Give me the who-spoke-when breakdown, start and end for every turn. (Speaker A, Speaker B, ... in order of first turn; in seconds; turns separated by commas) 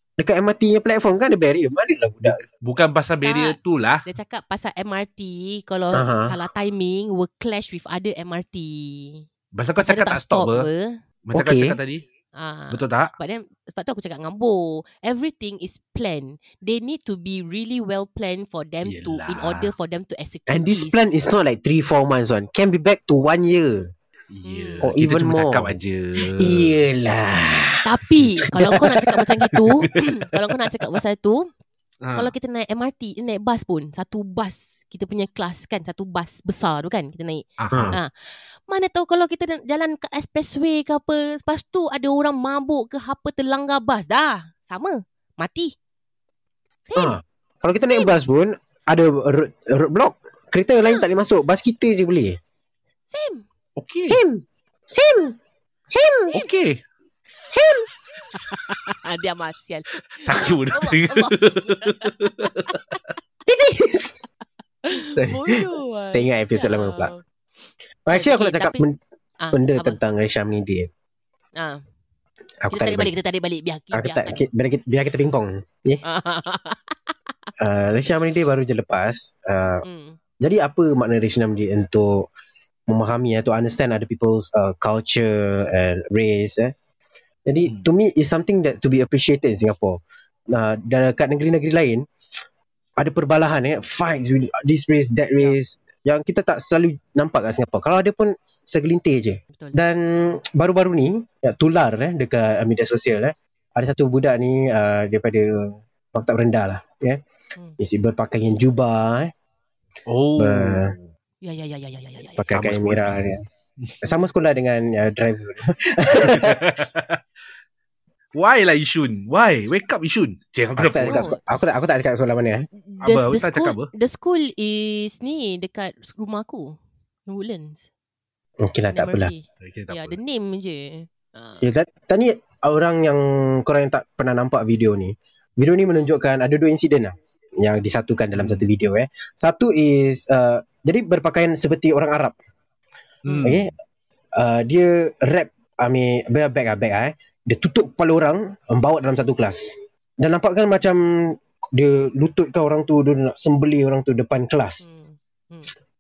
Speaker A: 0.2-2.4, Speaker B: 2.6-4.0, Speaker C: 3.2-9.3, Speaker A: 5.9-6.3, Speaker B: 9.5-10.7, Speaker C: 9.8-11.0, Speaker B: 11.3-12.0, Speaker A: 11.3-11.8, Speaker C: 12.3-21.1, Speaker B: 12.7-13.1, Speaker B: 18.8-19.7, Speaker A: 20.5-23.9, Speaker B: 24.3-26.8, Speaker C: 24.4-24.9, Speaker A: 24.8-27.9, Speaker C: 27.8-31.5, Speaker A: 28.5-29.2, Speaker B: 32.0-32.3, Speaker C: 32.1-45.8, Speaker B: 37.6-38.0, Speaker A: 37.7-38.0, Speaker C: 46.9-47.2, Speaker A: 47.0-52.4, Speaker C: 47.9-48.2, Speaker C: 53.1-53.5, Speaker B: 53.8-54.2, Speaker A: 54.0-56.4, Speaker B: 56.3-56.8, Speaker A: 57.5-57.9, Speaker C: 58.3-63.0, Speaker B: 60.2-62.8, Speaker A: 63.5-64.2, Speaker C: 64.8-67.2, Speaker A: 65.2-65.6, Speaker A: 66.1-67.1, Speaker A: 68.1-69.0, Speaker C: 68.1-68.8, Speaker C: 69.4-70.0, Speaker A: 69.5-70.9, Speaker C: 71.6-71.8, Speaker A: 72.6-73.1, Speaker C: 72.7-74.5, Speaker A: 73.9-76.0, Speaker C: 76.0-77.1, Speaker A: 77.6-79.8, Speaker C: 79.8-80.2, Speaker A: 80.4-82.3, Speaker A: 82.9-86.7, Speaker A: 87.5-92.1, Speaker A: 93.0-107.2, Speaker A: 107.8-109.3, Speaker B: 110.1-111.1, Speaker A: 110.4-111.0, Speaker C: 111.4-112.5, Speaker A: 112.4-113.4, Speaker B: 112.5-113.3, Speaker A: 114.0-116.7, Speaker B: 116.2-117.2, Speaker B: 118.3-121.3, Speaker A: 120.8-122.7, Speaker C: 121.0-121.4, Speaker C: 122.8-127.9, Speaker B: 123.0-123.9, Speaker A: 128.6-129.3, Speaker C: 128.9-131.7, Speaker B: 129.6-130.2, Speaker A: 131.6-142.3, Speaker B: 138.3-138.7, Speaker B: 143.2-143.7, Speaker A: 143.4-143.7, Speaker A: 144.3-154.8, Speaker C: 154.8-155.7